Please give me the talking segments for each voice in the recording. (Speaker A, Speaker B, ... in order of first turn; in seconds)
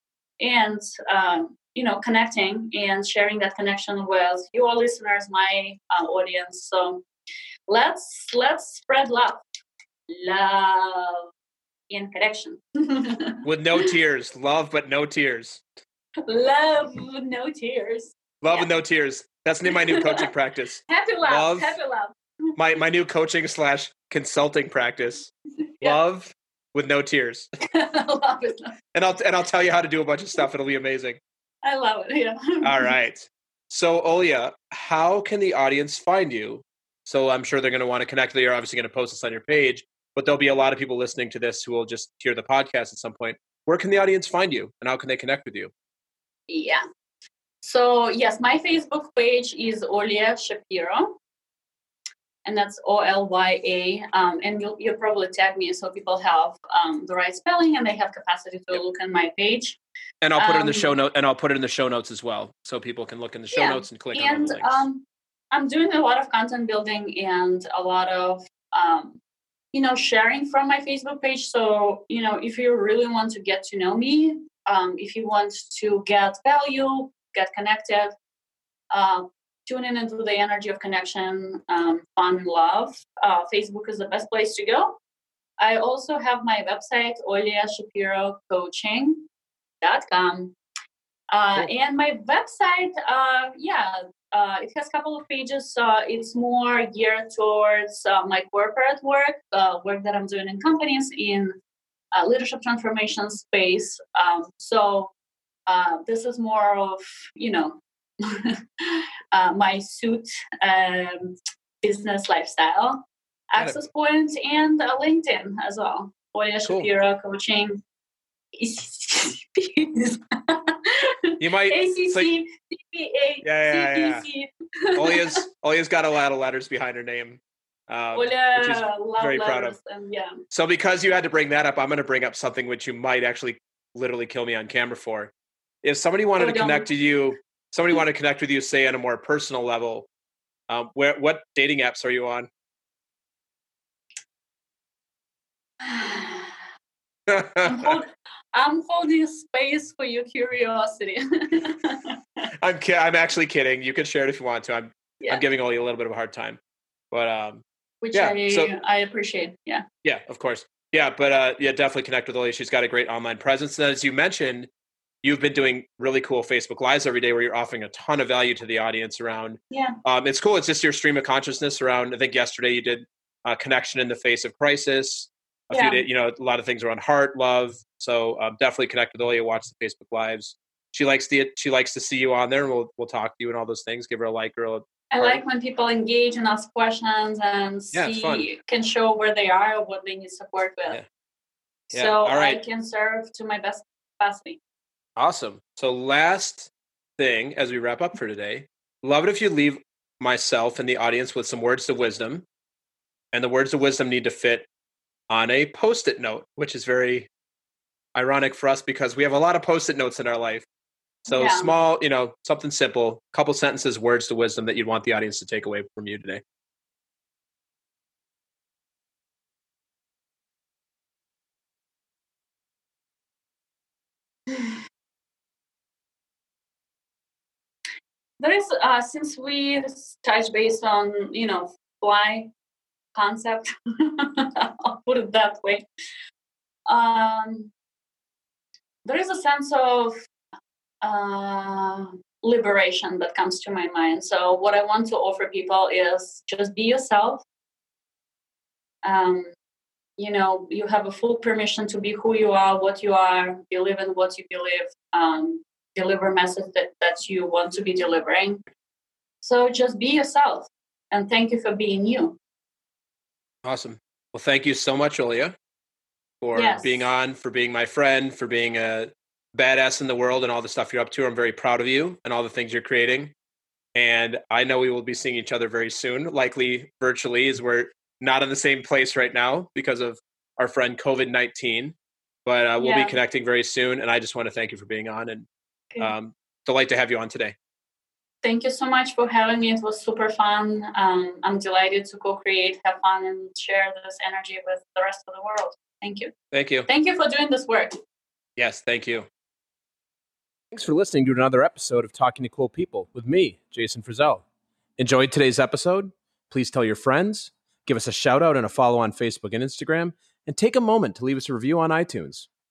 Speaker A: 0.4-7.0, 7.7-9.4, 10.1-11.3, 11.9-13.9, 16.3-18.7, 19.7-20.3, 20.9-22.5, 27.7-28.8, 31.6-32.9, 46.5-46.8, 47.6-51.2, 52.4-59.8, 60.4-60.9, 63.5-69.2, 69.7-78.1, 78.9-85.0, 85.6-89.3, 89.8-90.5, 91.3-101.5, 102.1-105.1, 105.7-117.8, 118.5-125.4, 128.1-130.4, 136.4-136.9, 145.8-146.5, 147.6-152.2, 158.0-159.8, 169.7-170.0, 175.7-176.0, 185.1-191.0, 191.9-194.6, 211.3-211.7, 224.5-224.8, 228.4-232.5, 233.1-235.8, 236.9-237.7, 239.0-240.2, 241.0-247.4, 249.0-249.5, 250.2-258.6, 259.4-262.4, 266.5-267.1, 282.8-283.1, 288.4-296.3, 296.9-298.0
Speaker B: 13.4-15.6, 18.4-21.8, 22.6-27.5, 28.9-31.2, 32.6-45.7, 60.2-64.8, 116.6-116.9, 121.4-122.3, 123.4-124.2, 124.9-129.8, 130.5-135.3, 135.8-140.1, 140.7-142.5, 147.3-148.0, 152.6-156.6, 157.1-158.7, 160.0-164.7, 165.2-185.4, 187.9-188.4, 191.9-192.6, 195.2-202.4, 203.3-204.7, 205.3-207.3, 208.1-210.7, 211.3-216.4, 263.6-265.5, 266.4-273.3, 273.9-285.5, 286.0-287.6, 296.5-296.9, 298.6-299.3, 300.7-304.4, 305.0-312.5